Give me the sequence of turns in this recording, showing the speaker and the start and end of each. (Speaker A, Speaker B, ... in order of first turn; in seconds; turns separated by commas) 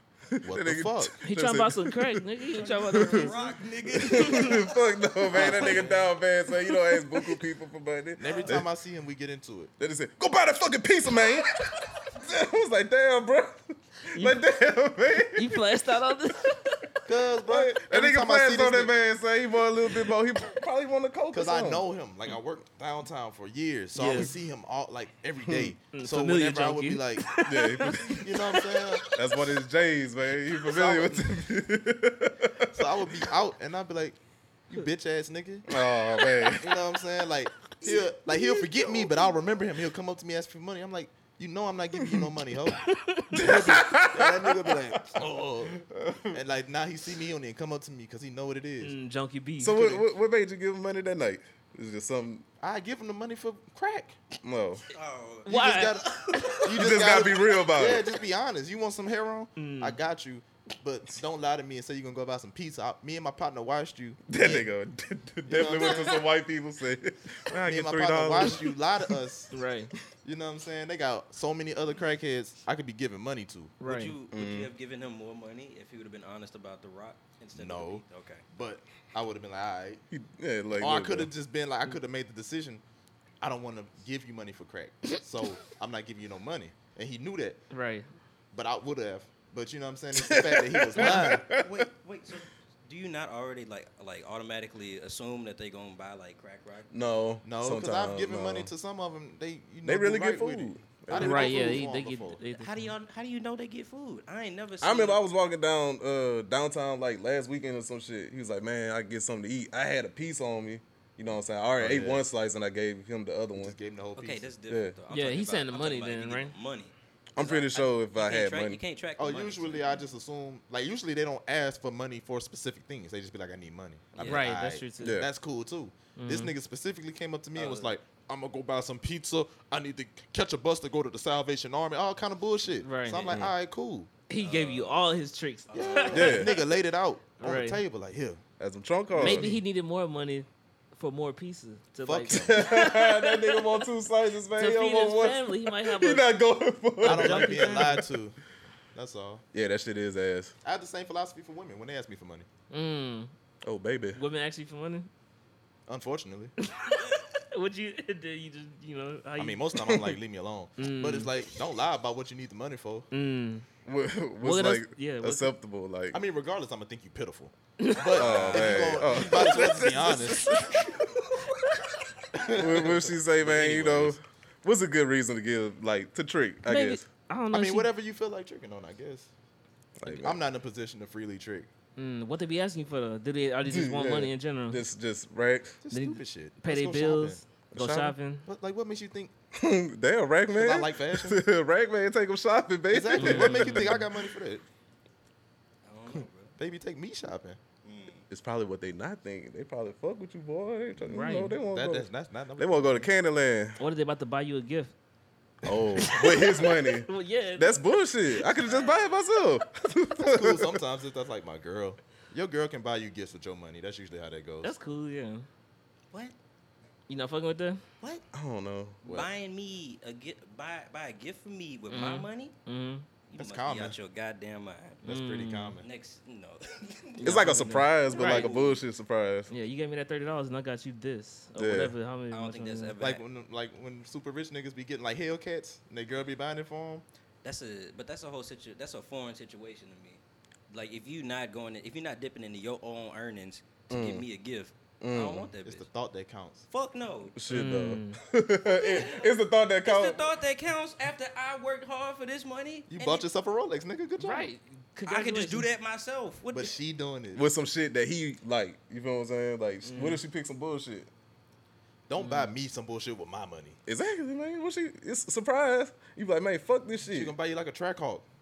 Speaker A: 0.3-2.2, Speaker B: 0.4-1.2, Speaker C: 1.2-4.6, Speaker D: 2.4-4.8, Speaker A: 2.8-3.3, Speaker A: 3.9-8.7, Speaker B: 5.3-5.9, Speaker D: 5.3-6.0, Speaker C: 5.4-5.9, Speaker C: 6.6-7.3, Speaker B: 8.2-9.7, Speaker D: 8.2-8.6, Speaker A: 9.8-15.7, Speaker C: 14.1-14.4, Speaker C: 15.3-16.9, Speaker B: 17.1-18.9, Speaker A: 17.4-21.8, Speaker B: 21.3-27.3, Speaker C: 23.9-24.3, Speaker A: 25.4-25.7, Speaker C: 25.9-29.2, Speaker A: 27.4-28.2, Speaker B: 28.1-29.0, Speaker A: 29.1-33.0, Speaker B: 30.6-31.4, Speaker B: 32.7-34.2, Speaker B: 34.7-35.7, Speaker A: 35.7-36.7, Speaker C: 36.2-36.6, Speaker B: 36.6-45.8, Speaker C: 42.7-43.9, Speaker A: 43.3-45.2, Speaker A: 45.7-46.4, Speaker B: 46.3-49.0, Speaker C: 48.8-50.0, Speaker A: 49.6-52.4, Speaker B: 52.6-54.2, Speaker A: 54.4-54.8, Speaker D: 54.9-56.7, Speaker B: 55.5-64.6, Speaker C: 55.5-56.5, Speaker A: 56.7-58.0, Speaker C: 59.5-60.0, Speaker A: 64.3-69.1, Speaker B: 65.5-66.2, Speaker B: 67.6-69.5, Speaker C: 69.5-69.9, Speaker B: 70.2-73.7, Speaker C: 73.8-74.1, Speaker D: 73.8-78.4, Speaker A: 74.3-74.7, Speaker B: 77.5-80.0, Speaker A: 80.1-81.3, Speaker B: 80.8-82.8, Speaker B: 83.4-87.6, Speaker C: 87.7-88.1, Speaker B: 88.5-91.5, Speaker A: 90.1-91.8, Speaker D: 91.0-97.0, Speaker A: 96.9-98.7, Speaker B: 97.4-102.4, Speaker A: 99.8-101.8, Speaker C: 101.1-102.7, Speaker D: 102.4-105.2, Speaker A: 104.8-113.7, Speaker B: 111.8-112.3, Speaker B: 113.5-114.5, Speaker D: 114.2-120.0, Speaker A: 114.7-115.0, Speaker C: 115.1-116.5, Speaker A: 117.3-118.8, Speaker B: 119.2-134.1, Speaker D: 124.2-124.5, Speaker C: 124.2-125.2, Speaker A: 125.0-125.3, Speaker C: 126.2-126.5, Speaker D: 127.5-128.0, Speaker C: 132.8-133.4, Speaker C: 134.3-136.5, Speaker D: 134.3-135.1, Speaker D: 135.7-136.6, Speaker B: 135.7-138.4, Speaker A: 136.1-136.6, Speaker C: 137.4-137.8, Speaker A: 138.6-139.5, Speaker B: 139.1-139.6, Speaker C: 139.1-143.8, Speaker B: 142.0-142.6, Speaker A: 142.3-148.1, Speaker C: 144.5-146.2, Speaker C: 147.0-148.1, Speaker B: 147.0-148.4, Speaker B: 148.9-149.4, Speaker A: 149.5-150.5, Speaker B: 150.6-152.5, Speaker C: 152.7-153.3, Speaker A: 153.6-154.2, Speaker C: 154.1-155.1, Speaker B: 155.9-156.5, Speaker C: 156.6-160.1, Speaker B: 159.4-163.1, Speaker C: 160.8-161.3, Speaker C: 163.1-163.7, Speaker A: 163.8-166.2, Speaker C: 164.4-165.5, Speaker B: 166.1-170.6, Speaker C: 167.8-170.7, Speaker A: 168.1-170.5, Speaker D: 168.2-168.8, Speaker B: 172.3-174.2, Speaker A: 172.5-177.0, Speaker C: 176.6-177.9, Speaker B: 177.5-179.3, Speaker A: 180.0-180.4, Speaker B: 180.1-181.7, Speaker C: 181.9-184.8, Speaker A: 183.6-185.8, Speaker B: 185.8-187.4, Speaker C: 185.9-188.4, Speaker A: 187.7-188.1, Speaker B: 188.4-189.3, Speaker A: 189.5-194.2, Speaker B: 190.5-191.4, Speaker B: 192.9-194.6, Speaker C: 193.1-194.0, Speaker D: 195.8-196.6, Speaker B: 196.6-197.6, Speaker D: 197.8-198.3, Speaker A: 198.3-203.8, Speaker C: 201.0-201.6, Speaker B: 201.7-203.1, Speaker C: 203.8-204.9, Speaker A: 205.6-210.8, Speaker B: 205.7-206.4, Speaker C: 206.0-207.9, Speaker D: 208.6-209.2, Speaker B: 210.2-214.7, Speaker C: 214.6-215.5, Speaker C: 217.1-217.8, Speaker A: 218.3-219.0, Speaker D: 219.0-222.5, Speaker B: 219.0-219.3, Speaker C: 221.9-223.1, Speaker D: 223.3-225.0, Speaker B: 223.3-224.0, Speaker C: 225.0-225.8, Speaker B: 225.0-225.9, Speaker D: 225.8-227.5, Speaker C: 227.2-228.5, Speaker A: 227.2-229.5, Speaker D: 228.0-228.8, Speaker C: 229.5-233.0, Speaker A: 231.6-231.9, Speaker D: 232.3-233.2, Speaker B: 233.0-237.0, Speaker D: 237.4-245.9, Speaker A: 243.9-244.2, Speaker A: 245.0-245.5, Speaker B: 245.6-246.7, Speaker D: 246.7-247.3, Speaker A: 247.3-250.3, Speaker C: 247.5-248.2, Speaker D: 248.6-249.3, Speaker D: 249.8-253.3, Speaker B: 252.9-254.5, Speaker C: 254.2-255.7, Speaker D: 255.1-256.7, Speaker B: 256.5-257.4, Speaker A: 257.3-261.1, Speaker C: 259.8-260.2, Speaker B: 262.1-263.8, Speaker C: 262.2-262.5, Speaker A: 263.9-267.3, Speaker B: 267.1-268.2